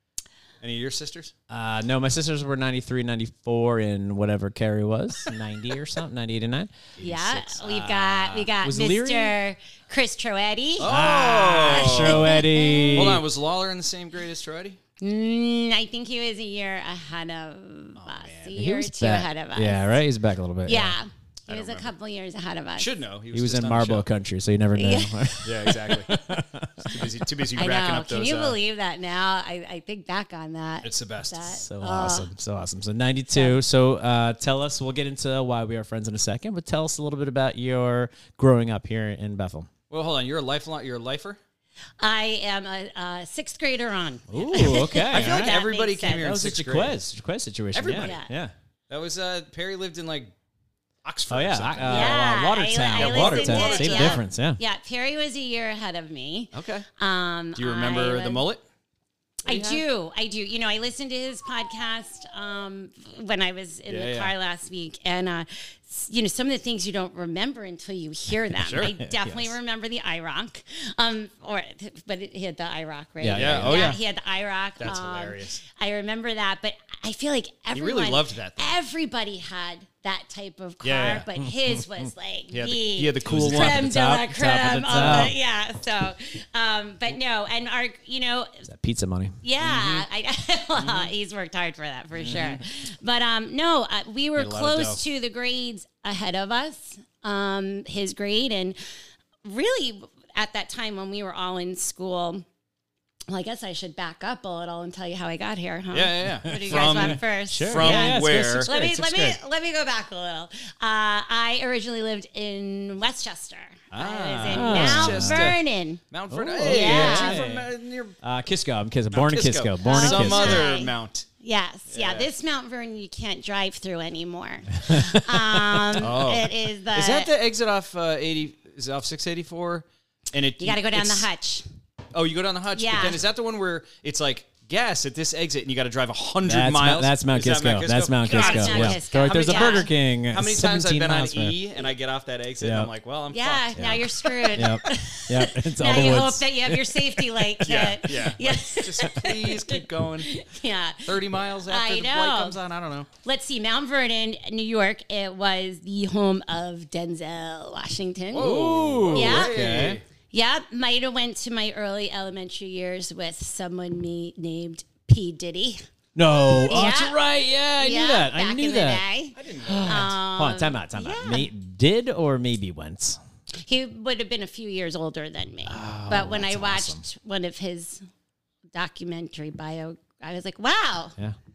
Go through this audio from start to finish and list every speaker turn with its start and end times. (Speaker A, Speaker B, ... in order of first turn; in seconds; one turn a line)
Speaker A: 0.6-1.3
Speaker B: 1.5-9.4
Speaker C: 7.0-10.9
Speaker A: 7.0-8.5
Speaker A: 10.8-12.3
Speaker B: 10.8-13.2
Speaker C: 11.6-13.2
Speaker A: 12.9-14.8
Speaker C: 15.0-20.0
Speaker A: 18.0-18.6
Speaker B: 18.6-21.0
Speaker C: 20.6-23.0
Speaker A: 21.5-21.9
Speaker A: 22.8-24.1
Speaker B: 23.3-27.1
Speaker C: 24.8-25.7
Speaker A: 25.4-26.1
Speaker A: 26.9-28.6
Speaker C: 27.6-32.3
Speaker A: 30.8-31.5
Speaker B: 31.5-39.7
Speaker A: 39.9-41.4
Speaker C: 42.0-46.4
Speaker B: 44.3-45.6
Speaker A: 44.9-47.0
Speaker B: 46.1-48.5
Speaker A: 47.7-48.1
Speaker C: 47.9-48.3
Speaker A: 48.9-50.3
Speaker A: 51.0-52.3
Speaker B: 51.3-54.6
Speaker C: 51.9-58.5
Speaker A: 53.0-54.2
Speaker A: 56.5-56.9
Speaker A: 57.6-58.6
Speaker A: 59.5-59.8
Speaker C: 59.5-88.7
Speaker A: 63.9-64.3
Speaker A: 68.6-69.0
Speaker B: 69.0-69.5
Speaker B: 73.2-74.0
Speaker A: 73.3-74.0
Speaker A: 74.8-75.6
Speaker A: 77.7-78.8
Speaker A: 80.8-81.3
Speaker B: 81.4-82.1
Speaker A: 82.5-85.3
Speaker B: 83.2-85.3
Speaker B: 88.7-89.4
Speaker C: 89.4-98.8
Speaker A: 89.6-90.1
Speaker A: 90.8-91.1
Speaker A: 92.2-92.6
Speaker A: 94.4-95.0
Speaker C: 99.4-102.5
Speaker C: 103.3-116.0
Speaker A: 105.9-108.7
Speaker B: 106.5-109.4
Speaker A: 113.9-118.2
Speaker B: 114.4-115.6
Speaker B: 116.3-117.7
Speaker C: 116.6-117.4
Speaker B: 118.2-120.7
Speaker A: 119.1-121.3
Speaker C: 119.8-127.3
Speaker A: 121.9-122.3
Speaker A: 125.9-131.3
Speaker C: 130.6-131.7
Speaker A: 132.1-144.6
Speaker C: 132.8-133.2
Speaker B: 136.4-141.6
Speaker C: 138.3-139.9
Speaker B: 142.6-142.9
Speaker C: 143.3-152.6
Speaker B: 143.8-147.2
Speaker A: 147.6-150.3
Speaker A: 151.0-153.1
Speaker C: 153.2-158.6
Speaker A: 158.3-160.0
Speaker B: 158.3-160.0
Speaker C: 159.1-159.6
Speaker C: 160.3-167.2
Speaker B: 166.2-169.0
Speaker C: 167.8-171.5
Speaker A: 169.4-170.2
Speaker B: 169.6-173.2
Speaker C: 173.6-178.0
Speaker B: 175.7-177.0
Speaker C: 178.7-181.2